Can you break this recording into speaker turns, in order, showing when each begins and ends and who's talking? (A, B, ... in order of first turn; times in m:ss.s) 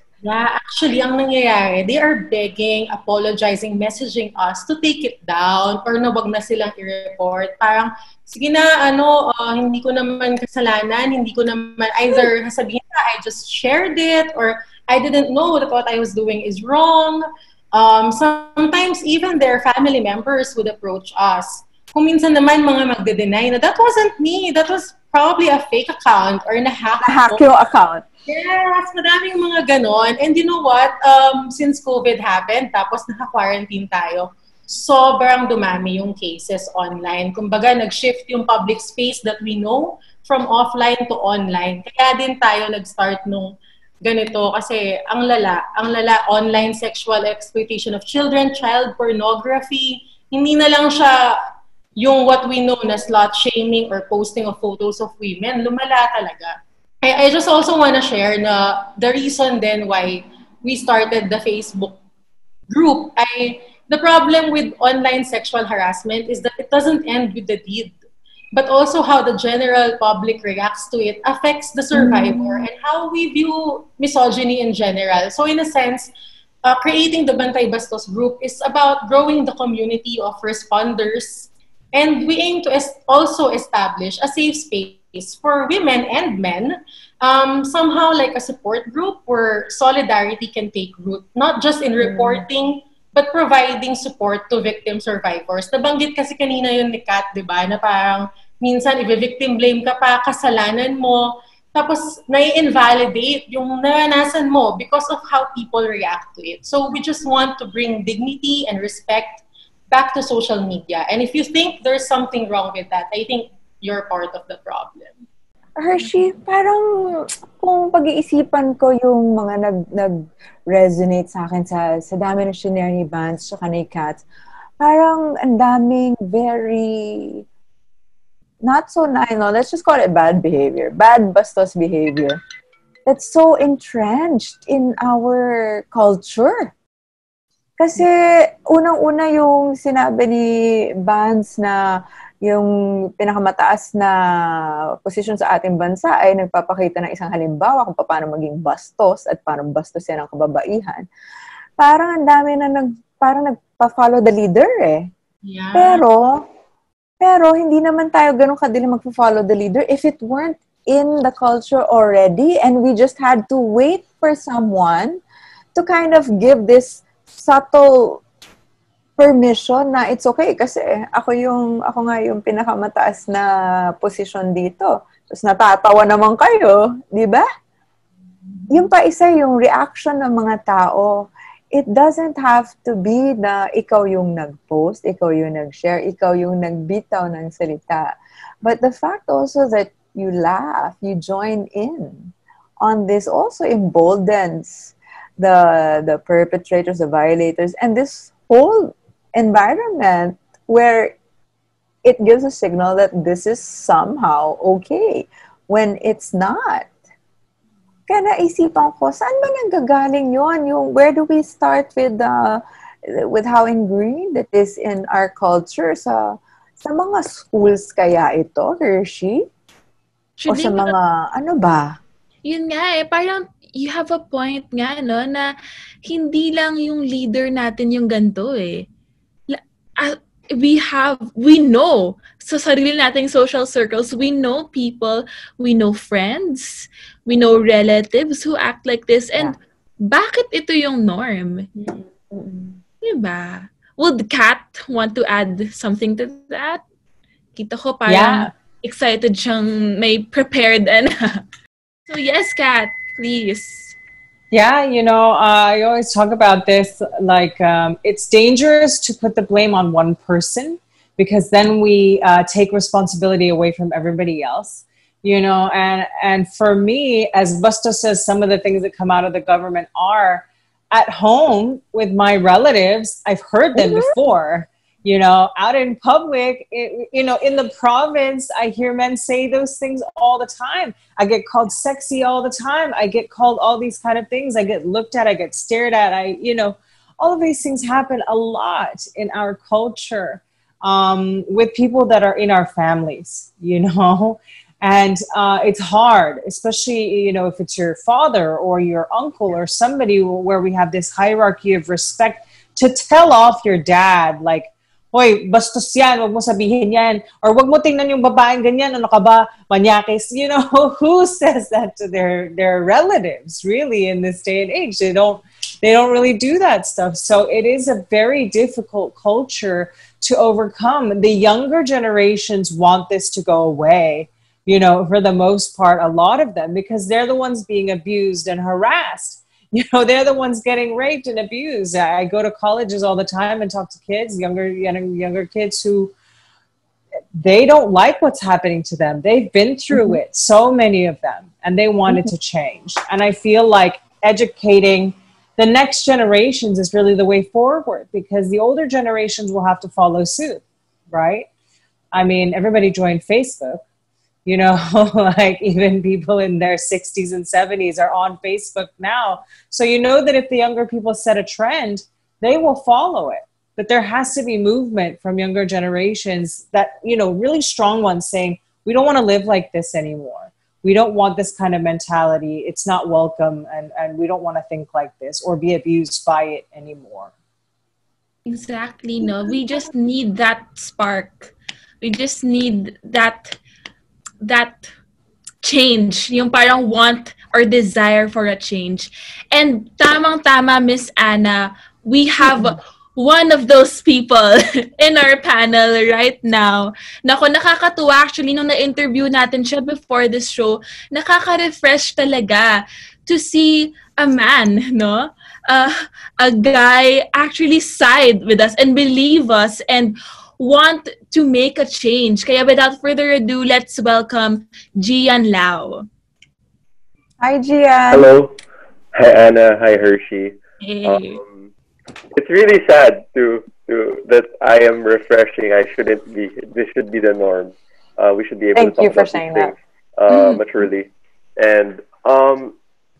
0:00.2-0:27.4 A
0:27.0-0:28.0 B
0:28.3-0:51.4 A
0:52.0-1:02.0 A
1:02.7-1:08.0 A
1:08.5-1:16.1 A
1:11.9-1:12.7 B
1:16.6-1:55.1 A
1:32.0-1:32.5 B
1:55.8-2:04.2 B
2:04.8-2:07.4 B
2:08.6-2:12.4 B
2:13.0-2:16.7 B
2:17.8-2:31.1 B
2:31.8-2:35.1 B
2:35.4-2:36.0 A
2:35.7-2:36.4 B
2:37.2-2:45.2 B
2:45.8-2:48.2 B
2:49.2-2:57.5 B
2:58.7-3:21.2 B
3:22.0-3:26.9 B
3:28.1-3:39.5 B
3:40.4-3:40.9 C
3:40.5-3:42.0 B
3:42.4-3:48.9 C
3:49.5-4:01.7 C
4:01.8-4:02.8 B
4:03.0-4:06.8 C
4:07.6-4:11.4 C
4:08.1-4:08.5 D
4:12.1-4:14.0 C
4:14.5-5:36.1 D
4:33.8-4:34.1 B
5:37.3-5:51.5 D
5:39.9-5:40.2 B
5:52.1-5:53.8 D
5:54.4-6:17.3 D
6:18.4-6:23.6 C
6:24.4-6:24.9 C
6:25.6-6:56.0 C
6:32.4-6:32.7 B
6:57.4-6:58.3 B
6:58.1-6:58.6 E
6:59.1-7:01.6 E
7:00.8-7:01.4 C
7:02.3-7:12.8 E
7:08.8-7:09.7 B
7:10.3-7:10.6 C